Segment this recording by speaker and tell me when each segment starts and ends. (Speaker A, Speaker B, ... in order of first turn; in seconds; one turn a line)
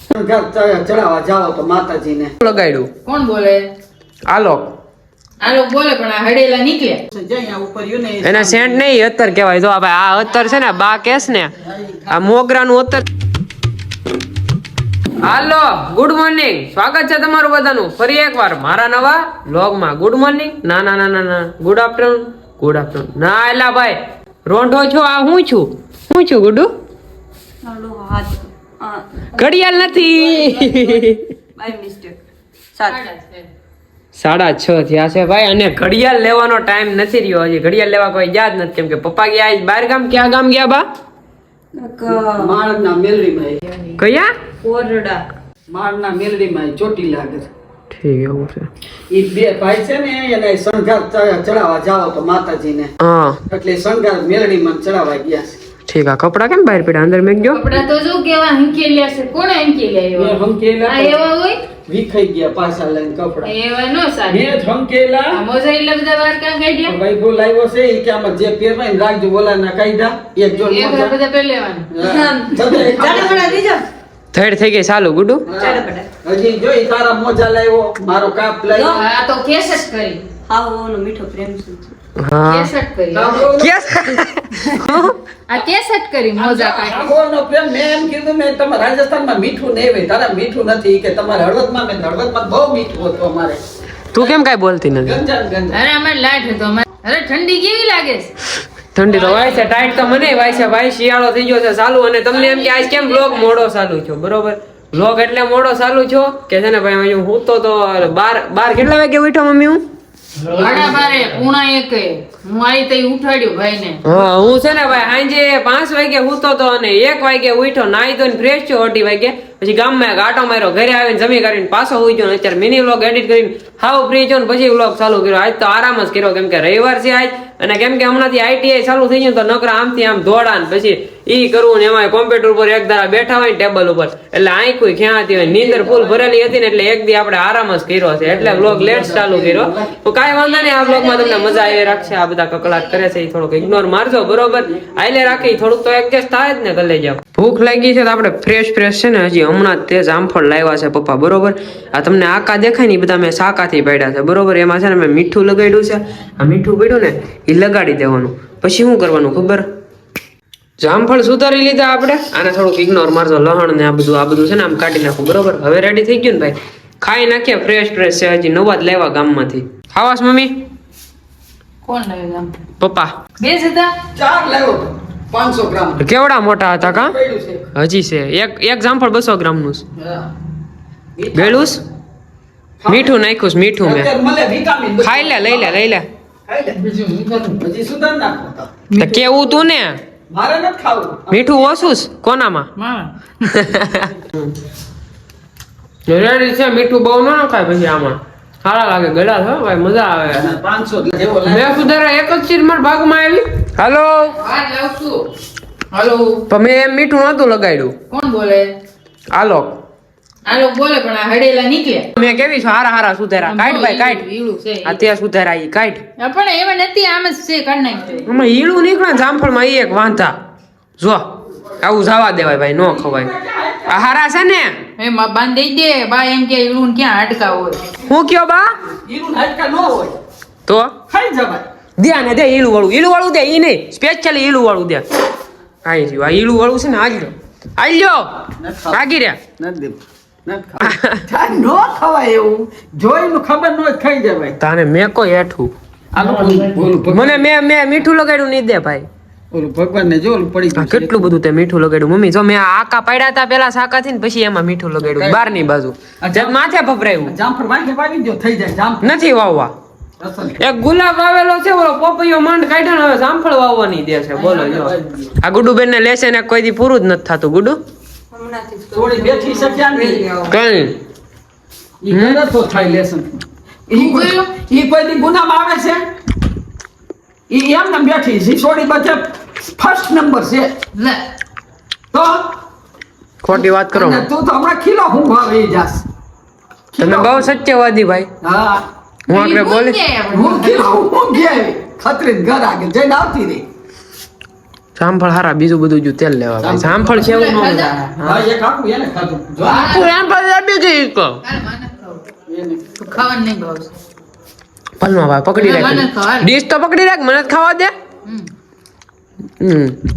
Speaker A: 0.1-2.3
Speaker B: 2.4-2.9
Speaker C: 3.0-3.6
Speaker B: 4.3-4.7
Speaker C: 5.4-7.0
Speaker A: 7.1-8.9
Speaker B: 8.2-11.6
Speaker A: 11.6-12.2
Speaker B: 12.1-13.1
Speaker B: 15.2-26.7
Speaker D: 27.6-32.2
Speaker B: 29.3-31.3
Speaker D: 32.7-33.0
Speaker C: 32.9-33.5
Speaker B: 34.1-40.9
Speaker D: 41.7-42.5
Speaker A: 42.1-43.6
Speaker B: 44.0-44.3
Speaker D: 44.6-45.2
Speaker A: 45.7-47.5
Speaker B: 47.9-48.7
Speaker A: 49.1-52.9
Speaker B: 53.0-53.4
Speaker A: 53.5-55.5
Speaker B: 55.9-57.6
Speaker C: 57.5-61.6
Speaker A: 60.1-61.3
Speaker A: 61.9-63.5
Speaker C: 63.4-64.5
Speaker A: 64.3-65.4
Speaker C: 65.3-67.0
Speaker A: 66.9-71.2
Speaker C: 70.5-71.9
Speaker A: 71.9-73.6
Speaker D: 72.0-73.9
Speaker B: 74.3-75.5
Speaker A: 75.5-79.0
Speaker D: 75.6-76.1
Speaker D: 78.7-79.0
Speaker C: 79.0-80.3
Speaker D: 80.5-81.9
Speaker B: 82.2-82.7
Speaker C: 82.5-83.5
Speaker A: 83.1-84.0
Speaker B: 83.6-85.2
Speaker C: 85.5-87.1
Speaker A: 86.4-93.6
Speaker B: 94.1-95.2
Speaker A: 95.0-95.8
Speaker C: 95.7-98.3
Speaker B: 99.0-109.8
Speaker C: 99.5-99.8
Speaker C: 110.5-114.2
Speaker B: 114.0-159.6
Speaker A: 135.3-136.3
Speaker A: 138.2-140.0
Speaker C: 140.5-142.1
Speaker A: 144.3-145.3
Speaker B: 160.8-170.5
Speaker C: 171.9-172.5
Speaker B: 172.8-173.1
Speaker C: 173.4-173.9
Speaker A: 174.2-176.0
Speaker B: 176.0-177.2
Speaker A: 176.8-177.7
Speaker B: 177.8-179.8
Speaker A: 180.0-180.3
Speaker A: 181.2-181.7
Speaker B: 181.3-181.8
Speaker A: 182.8-183.2
Speaker B: 182.9-184.1
Speaker A: 183.8-185.9
Speaker B: 185.0-186.1
Speaker A: 186.5-186.8
Speaker C: 186.8-187.6
Speaker A: 187.5-188.8
Speaker C: 188.9-189.5
Speaker B: 189.0-190.0
Speaker A: 190.3-191.9
Speaker B: 191.3-192.7
Speaker C: 192.8-193.4
Speaker B: 193.4-194.6
Speaker B: 196.1-200.6
Speaker A: 200.3-201.9
Speaker B: 201.5-204.4
Speaker C: 204.4-205.2
Speaker C: 205.9-206.4
Speaker B: 206.5-207.9
Speaker C: 208.1-208.7
Speaker B: 209.3-209.8
Speaker C: 210.5-212.1
Speaker B: 212.2-214.2
Speaker C: 213.5-215.1
Speaker B: 214.8-216.0
Speaker C: 216.2-218.2
Speaker B: 218.2-220.4
Speaker B: 221.0-221.2
Speaker B: 221.8-223.3
Speaker A: 222.8-224.2
Speaker B: 223.9-224.8
Speaker C: 225.0-227.8
Speaker B: 228.0-228.8
Speaker A: 228.9-230.2
Speaker B: 230.7-230.9
Speaker A: 231.1-231.7
Speaker B: 232.0-235.0
Speaker B: 235.8-239.4
Speaker A: 238.6-239.0
Speaker A: 239.6-244.6
Speaker B: 240.8-241.2
Speaker B: 244.6-245.7
Speaker A: 246.1-247.5
Speaker B: 247.1-249.1
Speaker A: 249.5-251.3
Speaker B: 250.8-257.4
Speaker A: 255.0-255.6
Speaker A: 256.2-256.6
Speaker A: 257.2-259.3
Speaker B: 259.0-259.7
Speaker A: 260.2-260.7
Speaker B: 260.6-267.8
Speaker A: 264.4-265.4
Speaker D: 268.3-270.6
Speaker A: 268.9-270.3
Speaker B: 270.5-270.9
Speaker A: 272.0-276.0
Speaker B: 272.1-272.4
Speaker C: 273.9-274.5
Speaker A: 277.5-280.7
Speaker C: 280.9-281.2
Speaker A: 282.1-282.6
Speaker B: 283.4-284.2
Speaker A: 283.5-286.0
Speaker A: 286.9-287.5
Speaker B: 287.0-288.3
Speaker A: 288.4-288.9
Speaker B: 289.3-290.0
Speaker C: 289.3-290.9
Speaker A: 290.3-293.6
Speaker B: 294.9-298.4
Speaker A: 296.6-297.4
Speaker C: 297.2-298.0
Speaker A: 298.2-300.1
Speaker C: 299.6-300.1
Speaker B: 299.6-301.4
Speaker C: 301.4-302.2
Speaker A: 302.5-303.1
Speaker C: 303.0-303.9
Speaker B: 305.0-307.9
Speaker C: 305.6-306.5
Speaker B: 309.6-310.0